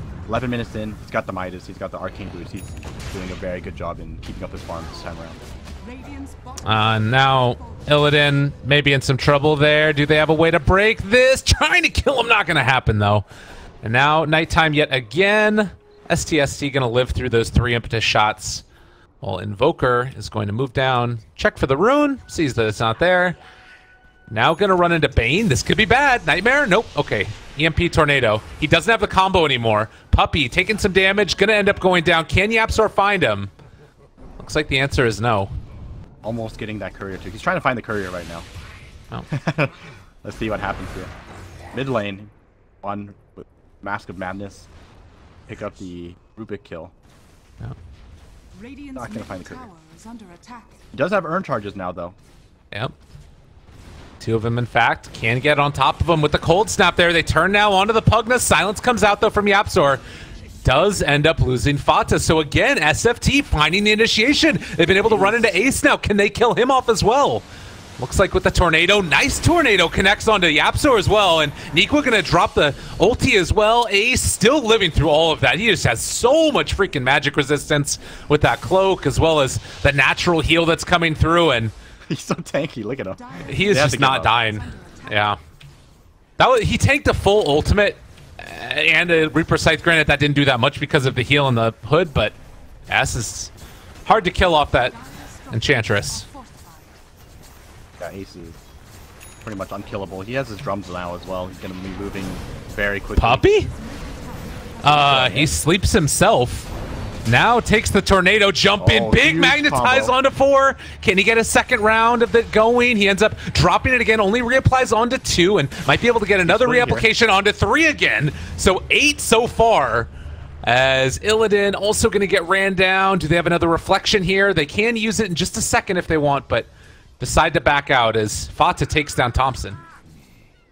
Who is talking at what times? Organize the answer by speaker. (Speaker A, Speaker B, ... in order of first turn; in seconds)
Speaker A: 0.3-5.4, 36.2-38.5, 39.3-41.1, 41.7-42.3, 42.8-44.7, 45.5-46.9, 49.0-49.6, 50.9-52.2, 65.1-65.4, 82.1-84.3, 98.0-98.6, 99.4-103.5, 104.9-105.5, 108.8-110.2, 116.4-117.1
Speaker B: 5.8-8.1, 48.5-50.8, 83.2-85.4, 94.6-97.0, 103.4-105.3
Speaker C: 6.6-13.3, 13.8-18.6, 19.2-23.4, 24.3-33.5, 34.4-35.5, 54.2-60.0, 60.6-67.5, 68.0-81.7, 83.5-85.4, 86.4-92.4, 92.9-93.5, 94.0-95.0, 95.5-96.3, 103.2-103.7, 104.8-106.7, 107.2-120.1, 120.6-129.8